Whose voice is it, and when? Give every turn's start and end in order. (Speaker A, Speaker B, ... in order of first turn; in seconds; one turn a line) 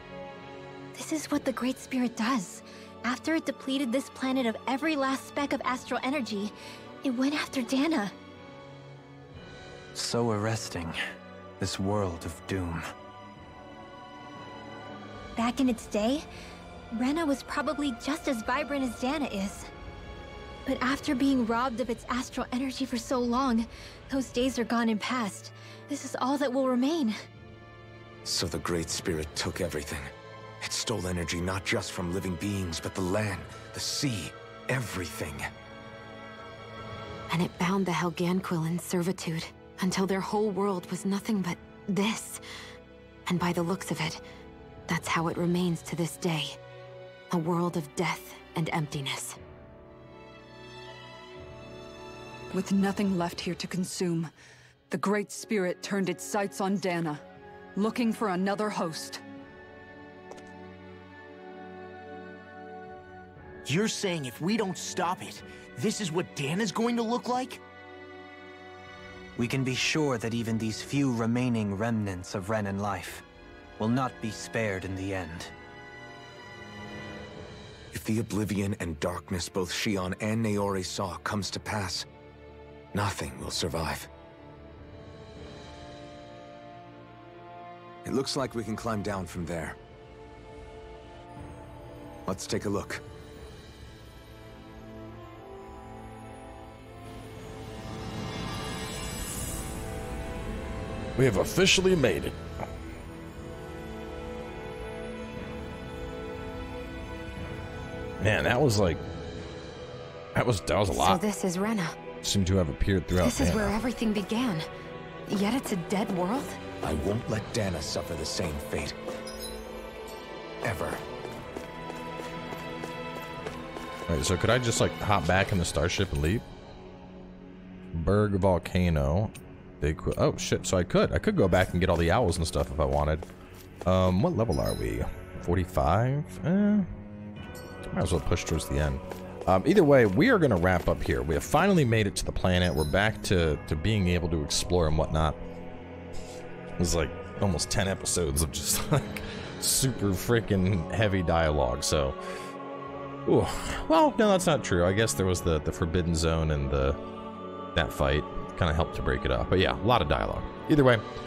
Speaker A: 0.9-8.1
Speaker B: 9.9-11.0
Speaker B: 11.6-12.8
Speaker A: 15.4-16.2
Speaker A: 16.9-19.7
Speaker A: 20.7-27.2
Speaker C: 28.2-35.5
Speaker D: 37.3-42.4
Speaker D: 43.3-44.2
Speaker D: 44.9-46.6
Speaker D: 47.3-49.4
Speaker E: 52.5-54.3
Speaker E: 54.9-57.2
Speaker E: 57.8-59.2
Speaker F: 63.7-67.6
Speaker B: 69.4-73.2
Speaker B: 73.8-75.5
Speaker C: 77.9-82.1
Speaker C: 82.9-84.1
Speaker C: 88.0-89.8
Speaker C: 92.3-93.0
Speaker G: 101.2-102.4
Speaker G: 108.2-109.0
Speaker G: 110.4-111.2
Speaker D: 110.9-112.0
Speaker G: 112.2-113.8
Speaker D: 113.2-114.7
Speaker D: 115.3-116.6
Speaker C: 116.8-119.0
Speaker C: 120.6-121.0
Speaker G: 124.1-126.4
Speaker G: 127.9-133.2
Speaker G: 133.8-136.9
Speaker G: 137.9-145.4
Speaker G: 146.8-152.2
Speaker G: 153.3-157.0
Speaker G: 157.8-161.0